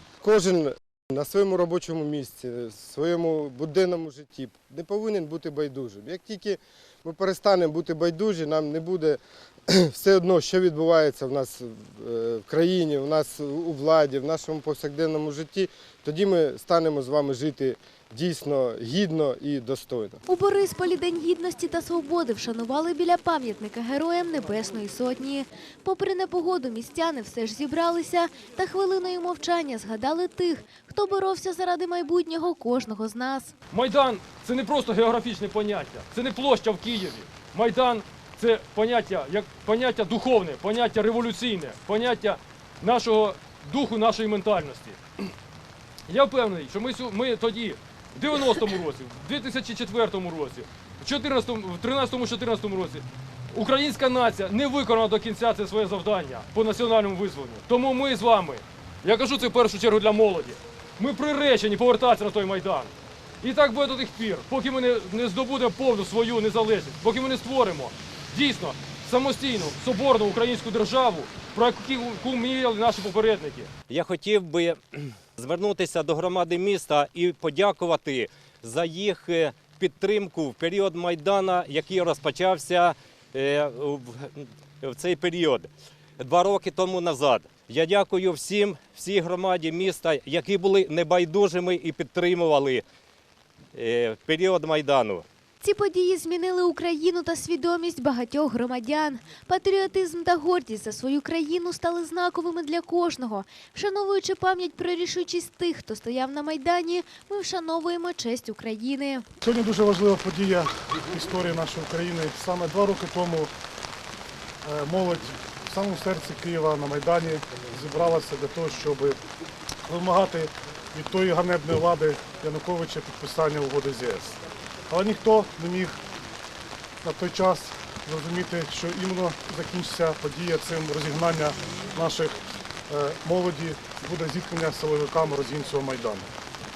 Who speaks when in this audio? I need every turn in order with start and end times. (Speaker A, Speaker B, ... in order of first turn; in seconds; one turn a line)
Speaker A: 0.2-20.2
Speaker B: 20.3-33.5
Speaker C: 33.7-45.0
Speaker C: 46.1-62.9
Speaker C: 63.4-73.7
Speaker D: 73.9-92.8
Speaker D: 93.7-95.2
Speaker B: 95.6-109.2
Speaker E: 109.5-113.5
Speaker E: 114.7-119.2
Speaker E: 119.9-124.3
Speaker E: 124.9-126.0
Speaker E: 127.0-132.3
Speaker C: 131.2-132.2
Speaker E: 132.9-136.3
Speaker C: 133.9-134.3
Speaker C: 135.2-136.0